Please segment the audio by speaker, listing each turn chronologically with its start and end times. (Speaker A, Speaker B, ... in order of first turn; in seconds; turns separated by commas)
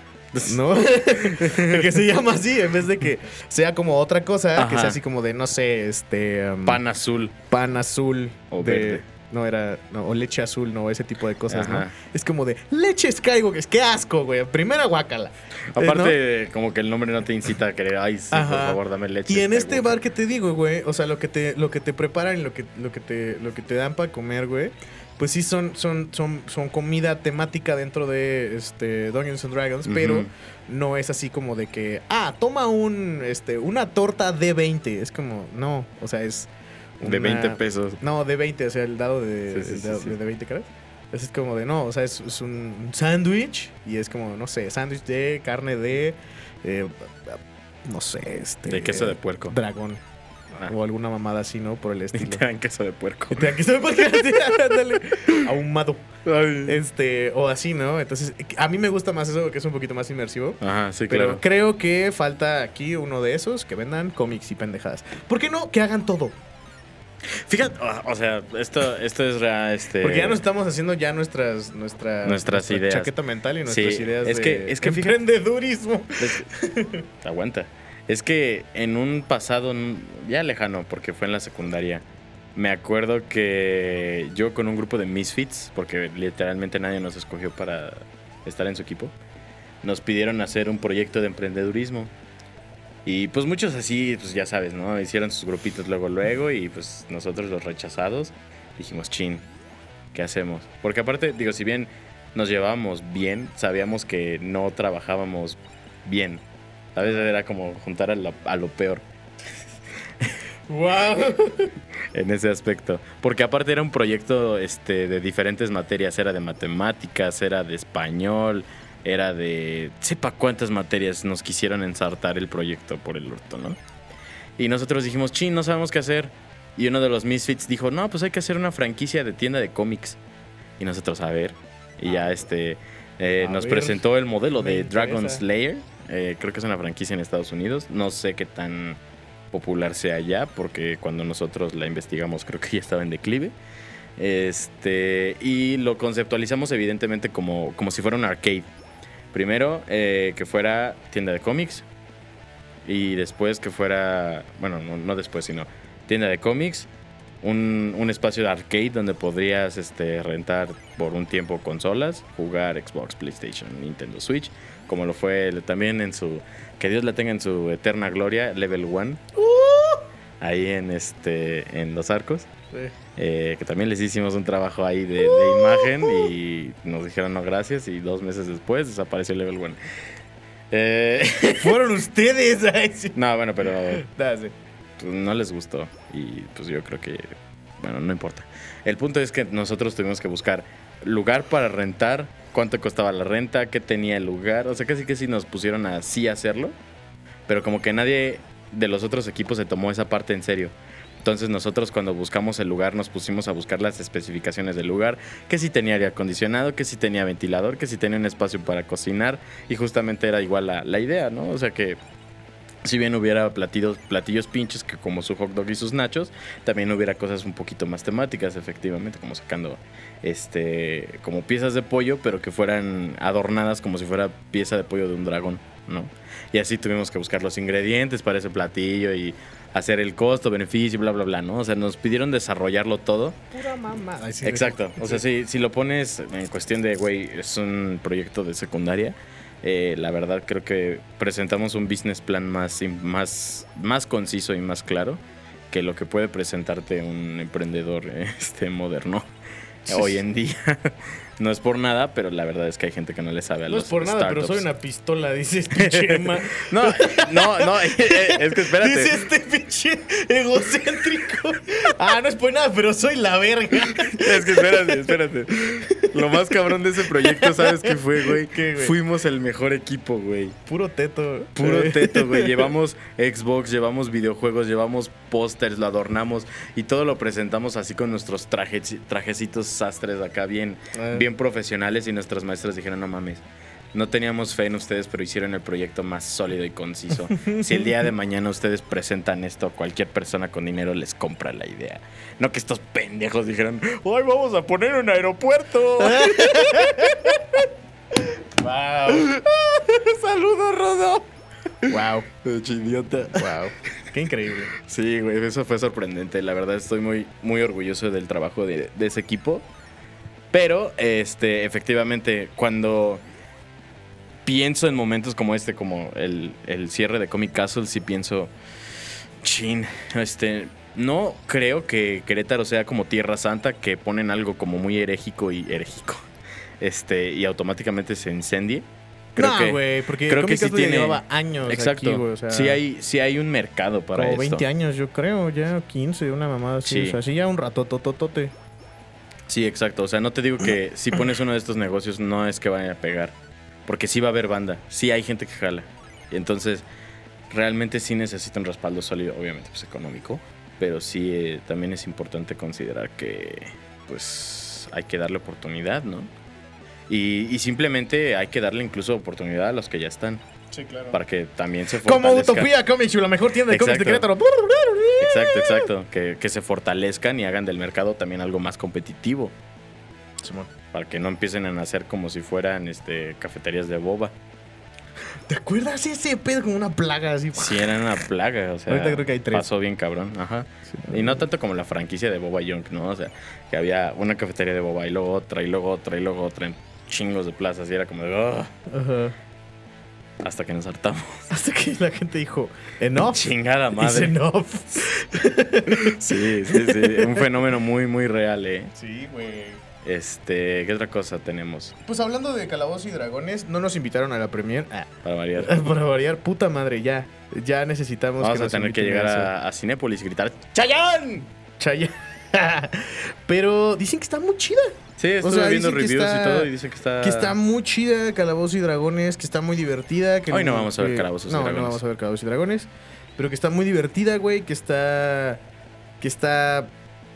Speaker A: 0.3-0.6, Speaker B: 0.4-6.8, Speaker A: 1.1-2.0, Speaker A: 4.6-5.0, Speaker A: 6.7-7.3, Speaker B: 7.5-16.2, Speaker A: 8.5-9.0, Speaker A: 11.5-11.9, Speaker A: 15.7-20.0, Speaker B: 18.3-50.0, Speaker A: 29.9-30.3, Speaker A: 37.0-38.0, Speaker A: 39.5-40.1, Speaker A: 48.7-49.6, Speaker B: 50.6-52.4, Speaker A: 52.1-53.5, Speaker B: 53.3-56.1, Speaker A: 54.3-55.4, Speaker A: 56.2-56.8, Speaker B: 56.6-66.4, Speaker A: 60.6-61.4, Speaker A: 67.2-70.4, Speaker B: 70.0-77.0, Speaker A: 72.2-73.1, Speaker A: 73.7-75.2, Speaker A: 76.2-76.4, Speaker A: 77.2-89.2, Speaker A: 89.8-92.1, Speaker A: 93.0-99.5, Speaker A: 100.1-106.4, Speaker A: 106.9-109.0, Speaker B: 107.0-107.3, Speaker B: 110.7-111.7, Speaker A: 112.1-123.8, Speaker A: 124.6-130.2, Speaker A: 130.8-139.0, Speaker B: 133.4-135.4, Speaker A: 139.5-143.6, Speaker A: 144.2-148.7, Speaker A: 149.3-151.9, Speaker A: 152.8-156.9, Speaker A: 157.4-169.2, Speaker B: 169.4-170.1, Speaker A: 170.4-172.5, Speaker A: 173.2-179.8, Speaker B: 175.2-176.3, Speaker A: 180.7-181.7, Speaker B: 181.6-183.2, Speaker A: 183.2-184.0, Speaker B: 183.9-184.6, Speaker A: 185.0-196.8, Speaker A: 197.5-212.0, Speaker A: 212.8-233.4, Speaker B: 233.5-235.2, Speaker A: 234.4-249.3, Speaker B: 249.9-250.2, Speaker A: 249.9-254.6, Speaker B: 253.7-265.2, Speaker A: 255.8-259.2, Speaker A: 263.8-270.6, Speaker B: 265.8-268.9, Speaker B: 270.7-272.7, Speaker A: 271.6-297.7, Speaker B: 280.9-281.3, Speaker B: 287.3-287.9, Speaker B: 296.0-297.2, Speaker A: 298.6-301.3, Speaker A: 301.9-303.5, Speaker B: 301.9-302.3, Speaker B: 303.3-304.7, Speaker A: 304.7-309.7, Speaker A: 310.5-313.2, Speaker A: 314.4-318.5, Speaker A: 319.4-326.3, Speaker A: 326.8-334.6, Speaker B: 329.4-332.8, Speaker B: 334.1-338.5, Speaker A: 336.8-337.2, Speaker A: 339.5-346.9, Speaker A: 347.5-356.3, Speaker A: 357.1-360.4, Speaker B: 360.7-361.2, Speaker A: 361.1-362.7, Speaker B: 362.0-365.9, Speaker A: 363.7-364.2, Speaker A: 365.2-369.6, Speaker B: 370.4-370.7, Speaker A: 370.9-374.4, Speaker B: 375.5-378.0, Speaker A: 377.6-388.7, Speaker B: 378.9-379.7, Speaker B: 380.9-381.4, Speaker B: 388.9-389.4, Speaker A: 390.4-391.5, Speaker B: 391.5-397.5, Speaker A: 393.2-394.4, Speaker A: 396.0-398.9, Speaker B: 398.9-399.8, Speaker A: 400.0-401.9, Speaker B: 402.1-409.5, Speaker A: 405.2-405.8, Speaker A: 408.4-411.5, Speaker B: 411.8-416.7, Speaker A: 415.2-417.6, Speaker B: 417.2-425.6, Speaker A: 420.5-422.0, Speaker B: 426.2-426.9